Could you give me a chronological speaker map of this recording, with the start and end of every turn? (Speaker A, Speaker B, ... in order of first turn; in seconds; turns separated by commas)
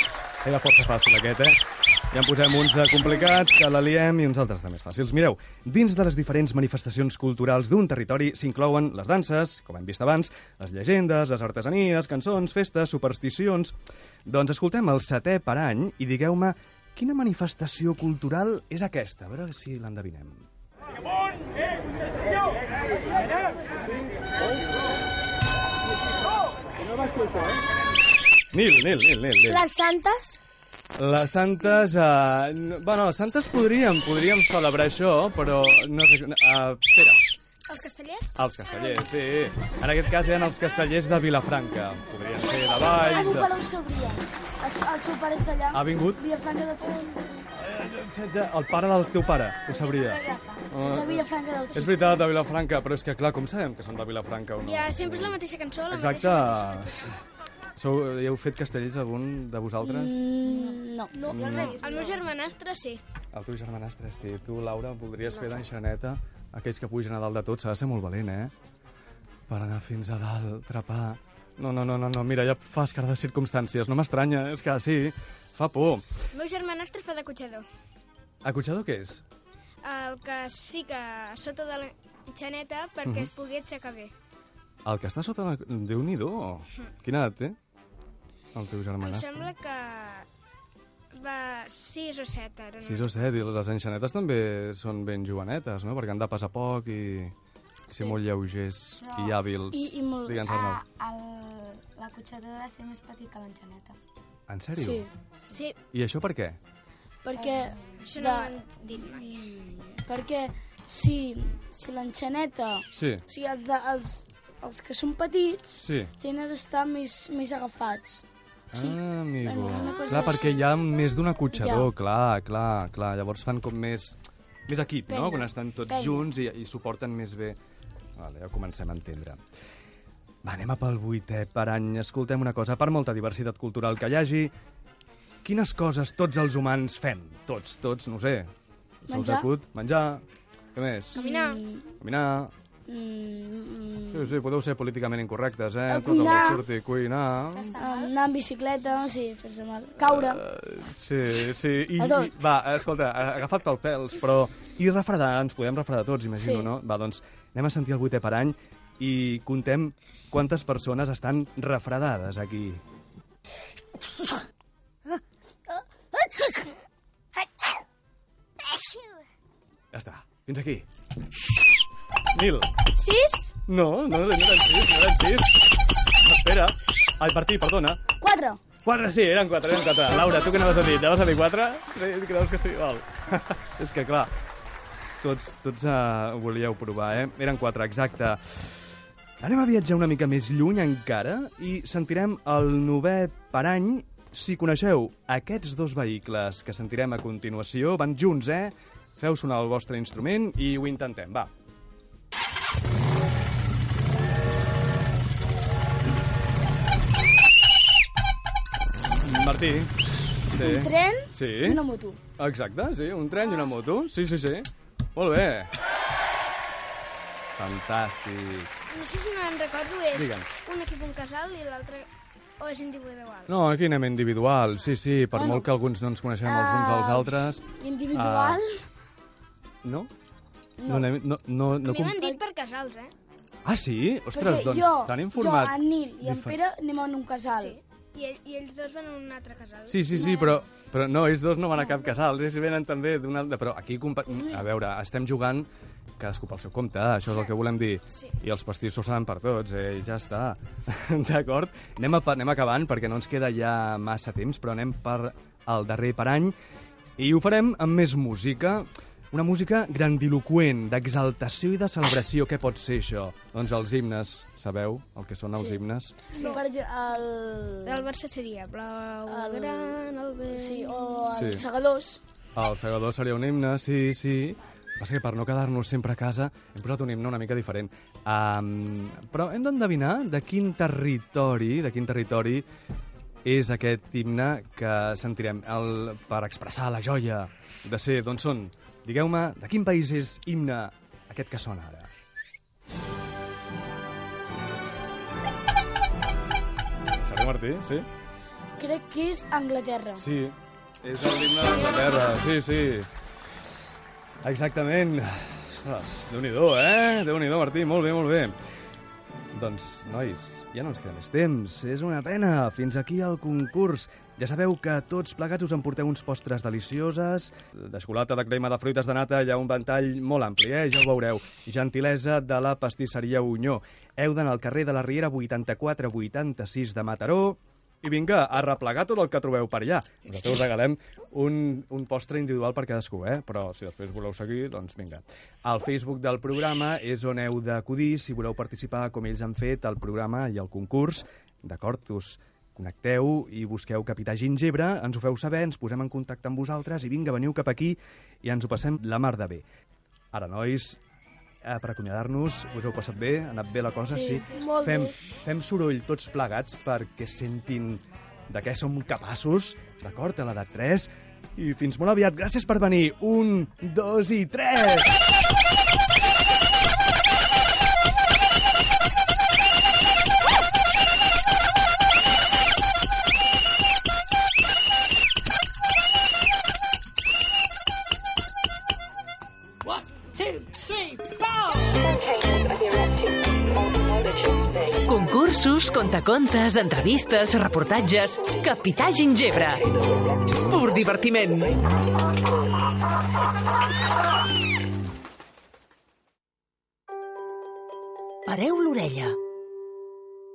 Speaker A: 0.4-1.6, Speaker A: 2.1-20.5, Speaker A: 28.5-29.7, Speaker B: 29.5-30.5, Speaker A: 31.0-37.2, Speaker C: 37.7-39.1, Speaker A: 38.4-43.5, Speaker B: 42.6-47.4, Speaker A: 45.7-46.2, Speaker A: 47.6-55.4, Speaker D: 49.7-50.7, Speaker B: 50.8-52.2, Speaker C: 54.6-57.0, Speaker A: 55.9-57.2, Speaker A: 57.8-60.3, Speaker B: 59.8-61.1, Speaker D: 60.4-62.5, Speaker A: 61.3-61.8, Speaker C: 61.5-63.0, Speaker A: 63.3-68.5, Speaker A: 69.5-76.1, Speaker C: 76.3-77.7, Speaker A: 78.4-79.2, Speaker C: 79.8-84.1, Speaker A: 83.0-83.3, Speaker A: 84.8-87.6, Speaker A: 88.5-89.5, Speaker C: 89.0-90.3, Speaker C: 91.1-93.1, Speaker A: 92.8-97.3, Speaker A: 97.9-100.8, Speaker D: 99.0-99.4, Speaker B: 99.7-100.5, Speaker D: 100.5-104.0, Speaker A: 104.5-105.1, Speaker B: 104.8-105.1, Speaker C: 105.5-105.8, Speaker A: 105.9-106.6, Speaker B: 107.2-108.6, Speaker D: 107.3-108.0, Speaker C: 108.0-109.6, Speaker B: 110.0-118.2, Speaker A: 112.9-113.2, Speaker A: 115.8-116.1, Speaker A: 118.7-127.6, Speaker B: 118.8-120.6, Speaker B: 121.5-121.9, Speaker B: 125.1-126.3, Speaker A: 128.2-129.4, Speaker A: 130.4-134.5, Speaker A: 135.4-138.5, Speaker A: 139.1-140.2, Speaker B: 139.1-139.5, Speaker A: 140.8-141.2, Speaker C: 141.2-141.6, Speaker B: 141.2-141.9, Speaker A: 142.0-142.5, Speaker B: 142.9-144.3, Speaker A: 144.1-147.7, Speaker B: 145.9-146.6, Speaker D: 147.5-148.1, Speaker B: 147.8-150.4, Speaker A: 150.0-162.8, Speaker B: 152.0-152.3, Speaker B: 156.4-156.7, Speaker A: 169.9-170.9, Speaker A: 172.3-172.7, Speaker C: 173.0-173.5, Speaker A: 173.7-175.5, Speaker A: 176.2-178.0, Speaker B: 178.2-178.6, Speaker A: 178.8-184.3, Speaker A: 185.2-201.5, Speaker A: 209.2-209.9, Speaker A: 210.5-211.8, Speaker B: 210.5-212.2, Speaker A: 212.4-215.7, Speaker A: 217.6-218.7, Speaker C: 218.9-223.5, Speaker A: 220.1-220.6, Speaker A: 223.5-228.6, Speaker B: 225.3-225.7, Speaker B: 226.4-228.7, Speaker A: 229.8-230.1, Speaker B: 230.8-231.1, Speaker A: 230.9-232.2, Speaker C: 231.8-233.1, Speaker A: 233.7-236.6, Speaker B: 234.3-237.8, Speaker C: 237.5-240.6, Speaker A: 239.9-256.6, Speaker C: 248.1-248.3, Speaker A: 257.2-266.2, Speaker C: 266.3-266.6, Speaker B: 266.3-268.1, Speaker C: 267.9-271.2, Speaker B: 269.3-270.0, Speaker B: 270.6-272.2, Speaker A: 271.3-271.6, Speaker A: 272.6-282.6, Speaker A: 283.4-292.1, Speaker A: 297.2-298.1, Speaker B: 298.8-300.2, Speaker A: 300.2-303.1, Speaker B: 301.8-302.3, Speaker A: 304.4-308.6, Speaker A: 309.5-349.6, Speaker A: 350.3-351.0, Speaker A: 351.6-365.1, Speaker B: 354.1-355.2, Speaker E: 385.1-389.8, Speaker E: 390.7-391.7, Speaker E: 398.5-399.3